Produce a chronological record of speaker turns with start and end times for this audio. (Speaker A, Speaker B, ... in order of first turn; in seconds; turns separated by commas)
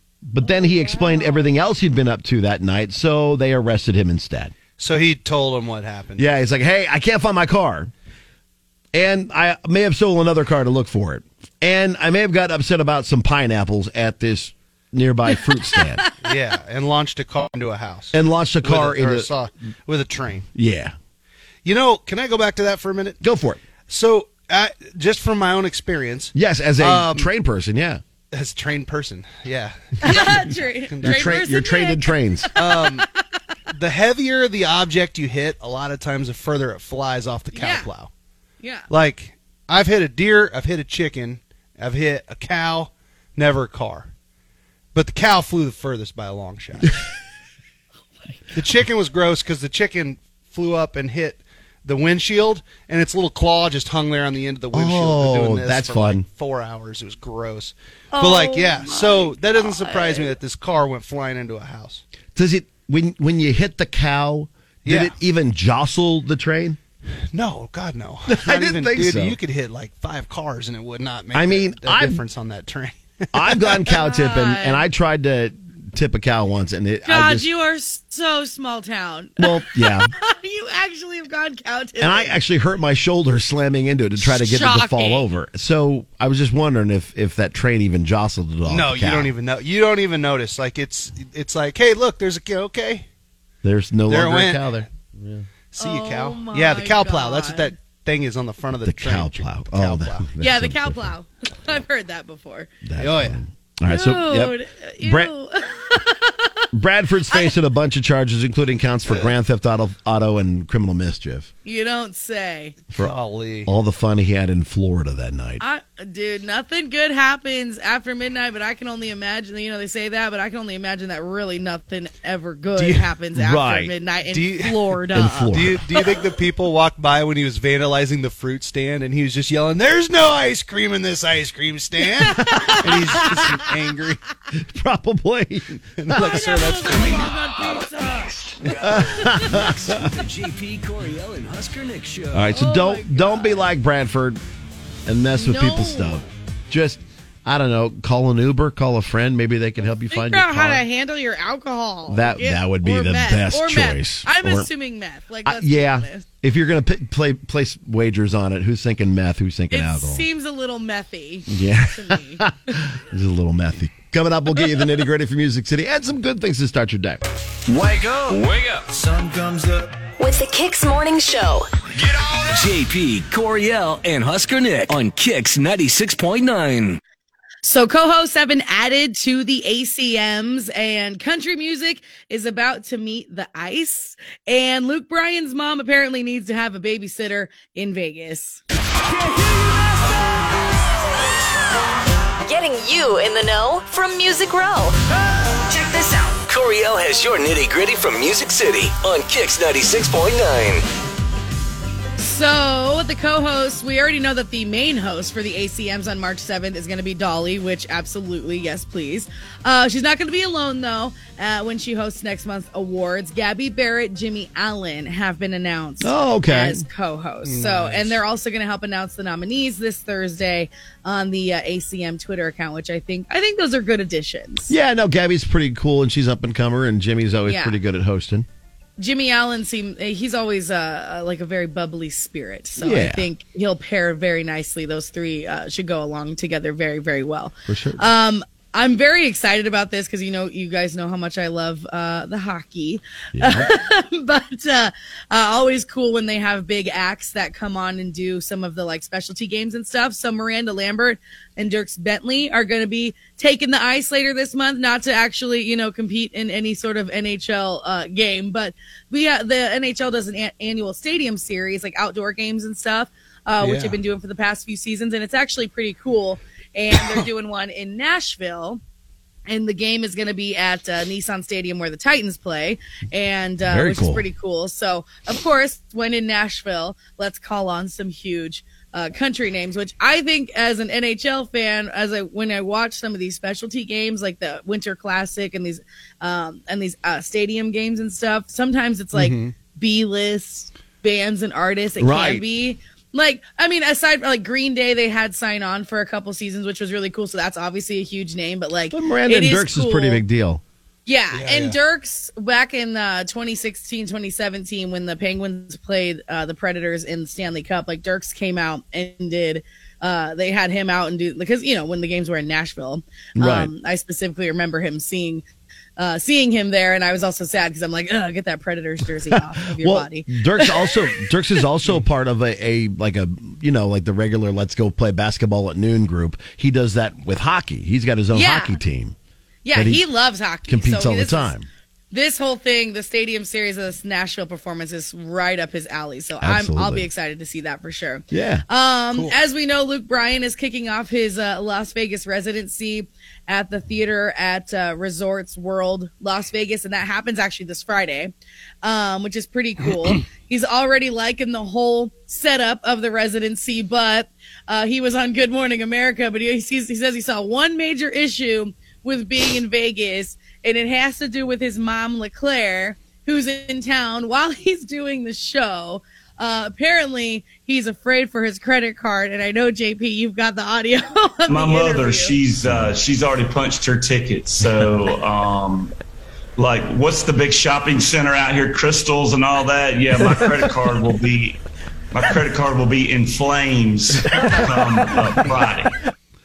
Speaker A: 0.2-4.5, Speaker B: 0.4-1.5, Speaker C: 4.8-6.3, Speaker A: 6.2-7.9, Speaker A: 8.9-16.0, Speaker C: 16.2-20.5, Speaker A: 18.1-19.3, Speaker A: 20.5-20.9, Speaker C: 21.6-23.2, Speaker A: 23.2-23.6, Speaker C: 23.9-27.3, Speaker A: 26.3-28.0, Speaker C: 28.3-31.4, Speaker B: 30.0-32.8, Speaker A: 31.0-32.5, Speaker C: 32.5-33.1, Speaker C: 33.7-38.1, Speaker B: 37.5-37.9, Speaker B: 38.6-38.9, Speaker C: 38.9-44.1, Speaker C: 44.9-47.0, Speaker C: 48.5-62.0, Speaker A: 54.7-56.2, Speaker B: 58.1-60.3, Speaker A: 62.3-66.8, Speaker C: 64.8-65.1, Speaker C: 67.3-73.6, Speaker A: 68.3-69.4, Speaker A: 71.3-72.2, Speaker A: 73.3-77.5, Speaker B: 73.8-74.8, Speaker B: 77.0-82.3, Speaker A: 79.4-80.1, Speaker A: 82.0-89.3, Speaker B: 84.2-85.2, Speaker C: 88.7-93.0, Speaker A: 93.6-95.4, Speaker C: 94.1-94.8, Speaker C: 95.7-100.2, Speaker B: 95.8-97.7, Speaker A: 98.8-101.1, Speaker B: 100.4-102.7, Speaker A: 102.8-105.3, Speaker C: 103.0-103.4, Speaker B: 103.9-106.5, Speaker A: 106.7-111.5, Speaker B: 107.3-107.5, Speaker B: 111.6-112.8, Speaker C: 112.9-113.7, Speaker A: 113.6-115.6, Speaker B: 115.6-125.5, Speaker C: 122.8-123.0, Speaker A: 123.3-123.9, Speaker C: 124.3-124.8, Speaker A: 125.1-125.9, Speaker C: 125.5-134.2, Speaker A: 132.4-133.5, Speaker B: 132.4-132.7, Speaker A: 134.5-136.3, Speaker C: 136.0-137.4, Speaker B: 136.1-138.4, Speaker D: 138.6-142.5, Speaker A: 138.8-140.1, Speaker A: 142.3-144.4, Speaker B: 142.5-143.5, Speaker A: 145.1-150.8, Speaker B: 145.4-146.3, Speaker B: 150.1-156.2, Speaker A: 152.1-154.7, Speaker A: 155.4-160.2, Speaker B: 159.7-162.7, Speaker A: 161.5-167.2, Speaker D: 167.7-169.5, Speaker E: 170.2-171.7, Speaker D: 172.4-177.0, Speaker B: 177.6-188.6, Speaker E: 192.4-194.9, Speaker E: 195.7-196.4, Speaker D: 196.5-200.8, Speaker B: 202.2-224.7, Speaker A: 216.0-216.8, Speaker C: 217.4-218.2, Speaker A: 224.7-228.4, Speaker B: 227.4-227.8, Speaker B: 229.0-268.8, Speaker A: 232.8-233.2, Speaker A: 237.7-238.1, Speaker A: 243.3-243.7, Speaker C: 263.6-264.0, Speaker B: 269.5-300.2, Speaker A: 273.7-274.2, Speaker C: 289.1-289.5, Speaker A: 292.0-292.4, Speaker A: 298.9-300.6, Speaker B: 301.1-315.4, Speaker C: 301.3-301.8, Speaker A: 313.4-313.7, Speaker B: 316.0-320.9, Speaker A: 319.3-329.1, Speaker B: 328.3-328.8, Speaker B: 329.6-331.5, Speaker A: 329.7-330.0, Speaker A: 330.7-331.7, Speaker B: 332.1-372.4, Speaker A: 336.4-337.1, Speaker A: 338.3-338.6, Speaker F: 371.5-375.9, Speaker F: 376.6-381.6, Speaker F: 382.1-385.9